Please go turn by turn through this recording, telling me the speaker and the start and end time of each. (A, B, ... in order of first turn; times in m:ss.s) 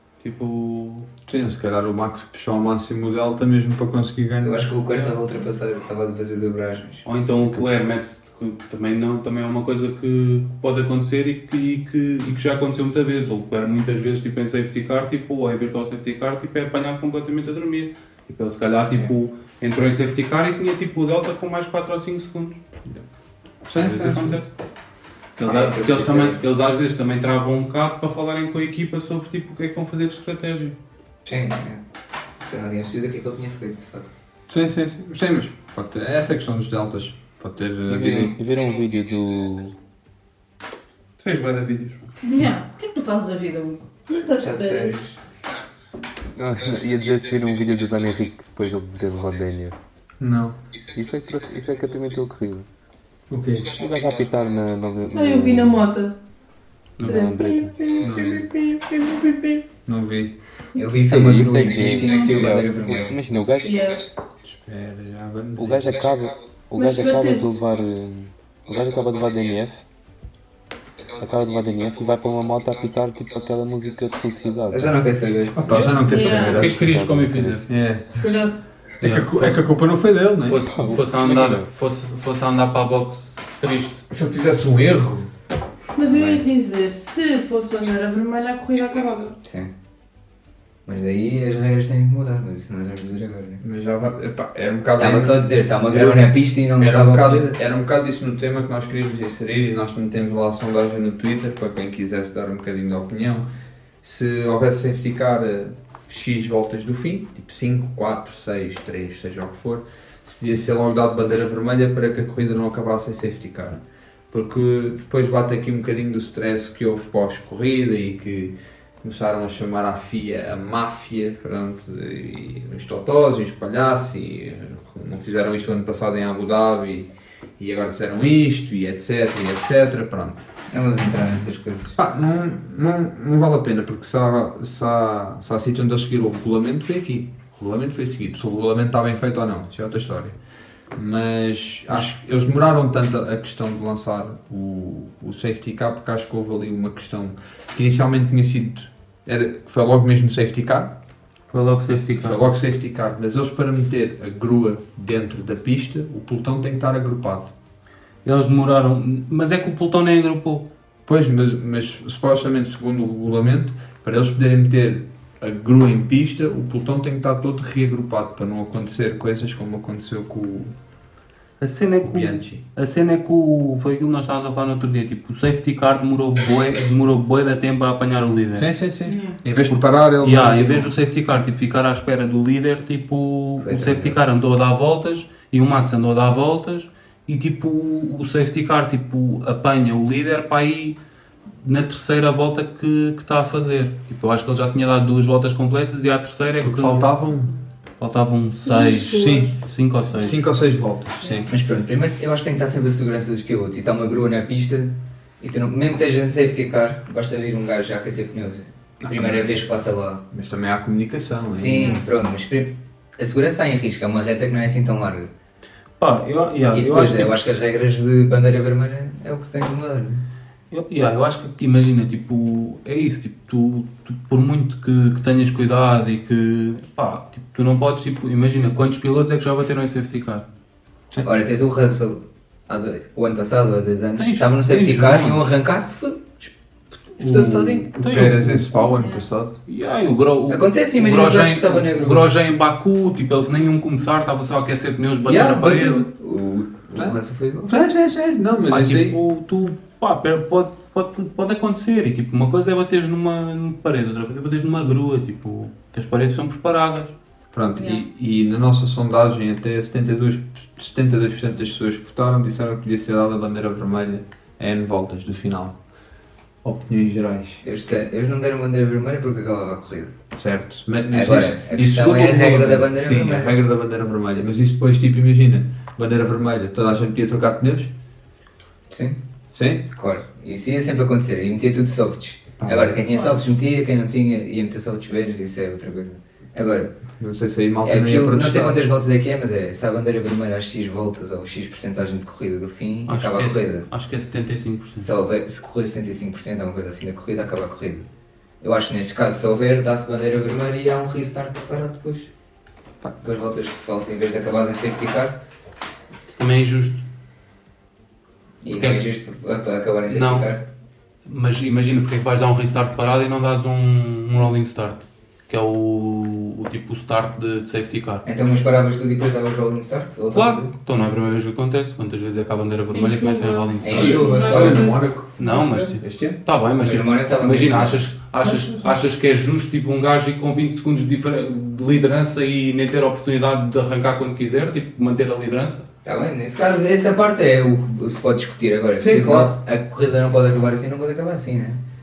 0:00.2-0:01.1 A
0:01.3-0:04.7 B
0:04.4-0:07.0 C
0:07.0-0:22.6 A
0:23.6-0:24.4 B
0:23.8-0:24.5 A
0:25.4-0:30.8 A
0:25.4-0:26.4 C
0:31.2-0:31.8 C
0:32.4-0:34.1 C
0:34.5-0:38.4 B
0:37.9-0:39.8 D
0:41.2-0:42.1 A
0:42.2-0:43.9 E
0:44.2-0:44.8 F
0:44.4-0:45.2 C
0:46.4-0:49.8 D
0:50.2-0:50.6 B
0:50.9-0:52.7 D
0:53.3-0:53.7 B
0:53.8-0:55.9 D
0:55.1-0:56.2 F
0:57.0-0:57.3 A
0:57.0-0:58.0 D
0:57.0-0:59.7 F
0:58.0-0:58.4 B
0:59.8-1:00.4 B
1:00.8-1:03.2 C
1:01.1-1:04.0 D
1:03.6-1:04.1 F
1:04.4-1:06.0 B
1:05.6-1:09.8 D
1:06.8-1:07.5 F
1:11.2-1:15.1 D
1:14.7-1:16.0 C
1:15.6-1:16.8 B
1:15.8-1:17.7 A
1:16.1-1:16.5 F
1:16.3-1:17.6 D
1:17.7-1:18.3 B
1:18.2-1:18.6 F
1:19.0-1:20.6 B
1:19.0-1:19.7 A
1:20.4-1:24.0 A
1:20.7-1:21.7 D
1:24.1-1:25.3 B
1:26.0-1:29.4 F
1:26.1-1:26.4 C
1:29.4-1:29.7 C
1:30.9-1:33.6 C
1:33.6-1:43.5 B
1:35.0-1:37.6 C
1:44.0-2:10.5 B
2:10.7-2:12.0 C
2:12.0-2:20.4 B
2:20.9-2:31.0 B
2:31.5-2:32.4 A
2:32.1-2:37.5 B
2:38.2-2:40.7 A
2:41.1-2:50.8 B
2:51.6-2:58.7 A
2:52.0-2:52.6 B
2:58.6-3:00.9 B
2:59.1-2:59.4 E
2:59.6-3:11.0 A
3:03.6-3:04.2 C
3:11.6-3:17.1 A
3:16.6-3:17.5 B
3:18.0-3:20.4 A
3:18.5-3:19.5 F
3:19.0-3:19.5 B
3:20.1-3:21.5 B
3:21.5-3:30.2 C
3:29.0-3:29.5 B
3:30.3-3:32.0 B
3:31.5-3:35.3 C
3:36.0-3:37.4 A
3:36.7-3:40.2 C
3:40.7-3:50.5 A
3:51.2-3:56.5 C
3:54.2-3:55.4 A
3:57.2-3:57.9 C
3:57.2-3:58.9 A
3:57.9-3:59.6 B
3:59.0-3:59.2 E
3:59.7-4:06.1 A
4:00.5-4:02.3 C
4:05.2-4:07.8 C
4:06.9-4:09.2 B
4:08.7-4:17.2 A
4:17.5-4:25.8 B
4:17.7-4:18.0 E
4:26.6-4:27.6 B
4:27.6-4:30.1 C
4:30.3-4:37.9 B
4:31.1-4:33.5 C
4:38.9-4:39.2 C
4:39.5-4:39.8 B
4:39.9-4:47.0 C
4:42.6-4:43.1 B
4:43.1-4:43.4 E
4:47.2-4:48.8 B
4:47.8-4:53.9 C
4:53.1-4:55.1 A
4:55.0-4:58.1 C
4:58.6-5:02.3 C
5:03.2-5:05.4 C
5:06.3-5:07.0 A
5:08.6-5:10.6 C
5:08.8-5:09.1 A
5:10.1-5:10.5 A
5:11.2-5:18.2 A
5:18.2-5:20.7 C
5:20.3-5:24.4 A
5:22.9-5:25.1 F
5:23.8-5:25.0 C
5:23.9-5:26.4 B
5:25.4-5:35.9 A
5:26.8-5:28.0 C
5:28.4-5:29.0 B
5:36.0-5:41.8 C
5:39.0-5:39.6 B